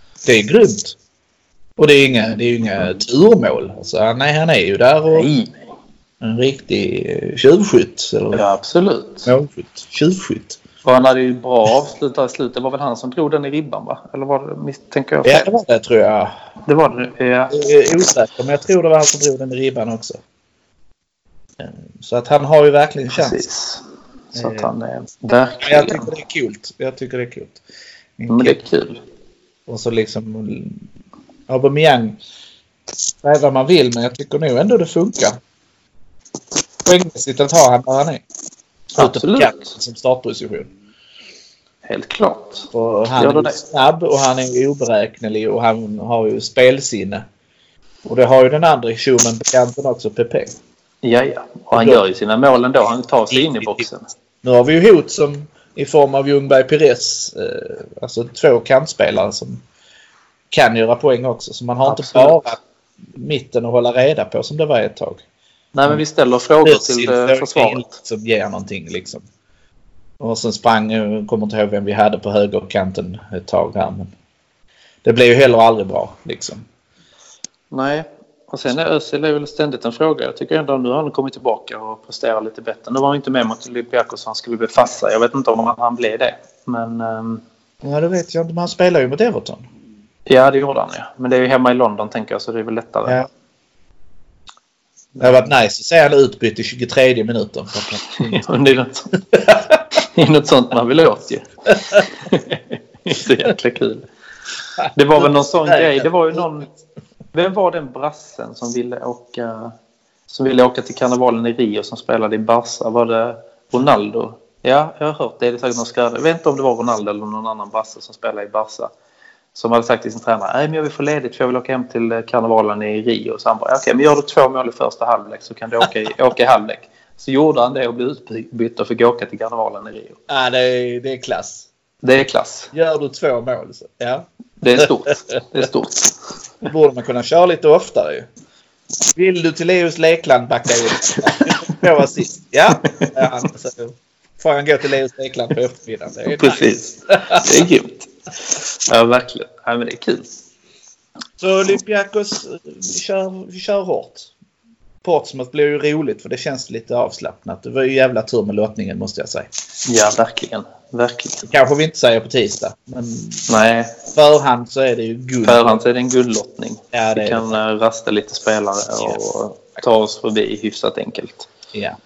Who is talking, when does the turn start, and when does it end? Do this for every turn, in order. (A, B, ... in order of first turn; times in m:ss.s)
0:00.2-0:01.0 A
0:01.8-0:05.3 A
0:05.1-0:05.6 B
0:06.2-0:08.4 A
0:08.3-0:09.3 B
0:09.2-0:10.6 A
0:10.8-0:15.5 B
0:15.2-0:16.3 A
0:16.6-0:17.7 B
0:17.5-0:20.2 A
0:21.6-0:23.4 A
0:23.1-0:23.8 B
0:24.3-0:24.7 A
0:24.3-0:26.1 B
0:25.6-0:27.6 A
0:28.2-0:28.6 A
0:28.3-0:29.0 B
0:29.7-0:30.8 A
0:31.5-0:32.2 A
0:33.2-0:35.4 A
0:36.8-0:38.2 A
0:38.9-0:39.7 B
0:39.0-0:40.7 A
0:41.9-0:43.6 B
0:42.7-0:47.2 A
0:48.0-0:50.6 A
0:51.0-0:54.1 B
0:51.7-0:52.0 A
0:53.3-0:53.9 A
0:54.4-0:59.6 A
1:00.5-1:02.6 A
1:01.8-1:02.4 B
1:03.1-1:05.2 A
1:05.7-1:07.8 B
1:06.6-1:09.2 A
1:10.2-1:14.1 A
1:15.0-1:16.6 A
1:17.7-1:27.4 B
1:27.8-1:29.6 A
1:30.3-1:33.2 B
1:35.2-1:35.4 B
1:35.2-1:38.4 A
1:38.1-1:39.2 B
1:39.3-1:39.8 A
1:39.9-1:44.0 B
1:44.8-1:46.5 A
1:44.9-1:46.7 B
1:47.3-1:49.7 B
1:50.3-1:58.9 B
1:59.5-2:10.2 B
2:10.3-2:11.7 A
2:12.0-2:12.7 B
2:12.7-2:14.9 A
2:14.6-2:16.1 B
2:16.7-2:18.3 A
2:19.1-2:27.4 A
2:21.1-2:21.8 B
2:22.9-2:23.2 B
2:26.4-2:30.3 B
2:31.4-2:34.3 A
2:35.0-2:39.5 A
2:39.8-2:41.4 B
2:41.4-2:43.5 A
2:43.5-2:44.0 B
2:44.1-2:45.8 A
2:45.4-2:51.5 B
2:46.9-2:47.5 A